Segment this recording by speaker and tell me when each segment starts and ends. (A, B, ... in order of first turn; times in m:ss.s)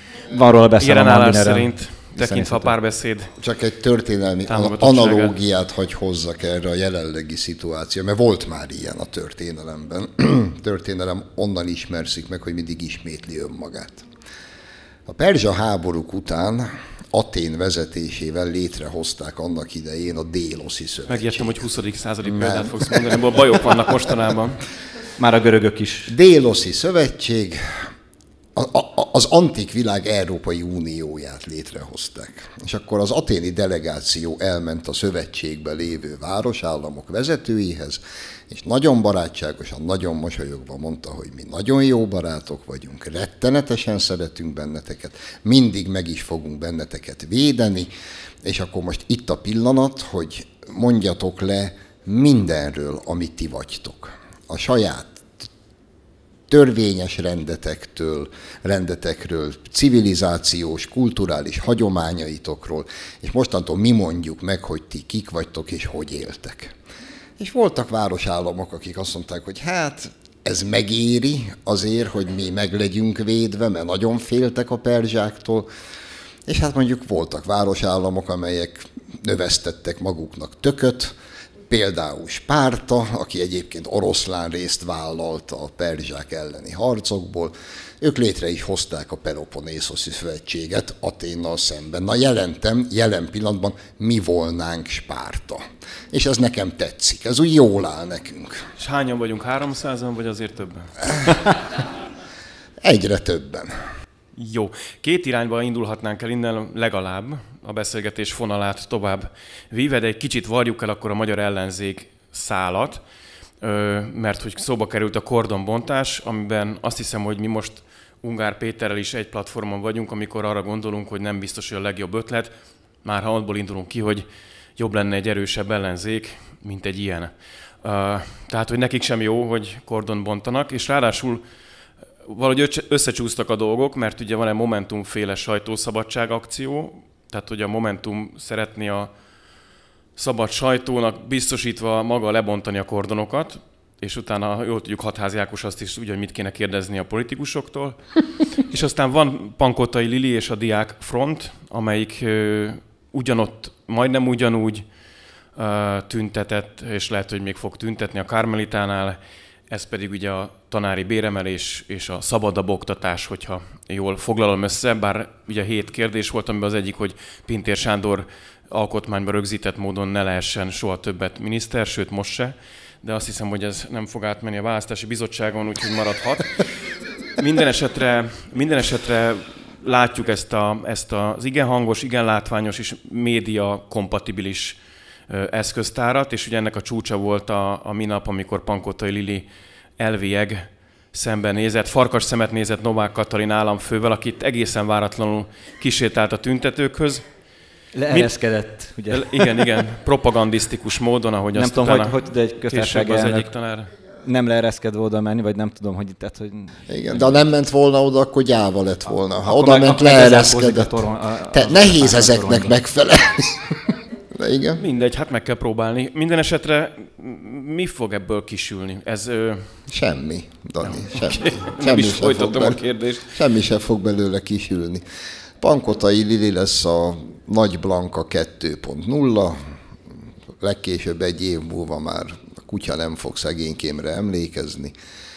0:00.3-0:02.7 A
0:00.8-0:03.4 B
0:03.4-0:14.1 C
0:04.5-0:05.4 B
0:15.1-0:21.6 C
0:21.1-0:24.6 B
0:22.2-0:23.2 C
0:25.2-0:26.1 A
0:26.1-0:27.9 C
0:28.6-0:47.9 C
0:48.4-0:55.5 C
0:56.5-1:06.7 C
1:07.4-1:15.7 C
1:16.5-1:21.1 C
1:21.7-1:38.7 C
1:38.8-1:41.5 B
1:42.8-1:43.8 C
1:44.4-1:53.0 B
1:53.6-2:11.4 B
2:12.2-2:19.1 B
2:20.2-2:28.0 B
2:28.5-2:34.9 B
2:35.6-2:56.8 B
2:57.3-3:09.5 B
3:10.0-3:17.2 B
3:17.9-3:19.7 A
3:19.1-3:23.9 B
3:21.5-3:23.5 A
3:24.2-3:27.4 A
3:26.9-3:34.8 C
3:29.4-3:32.8 A
3:34.8-3:39.8 B
3:39.9-3:45.0 C
3:41.1-3:43.4 B
3:45.6-3:49.7 C
3:50.6-3:54.9 C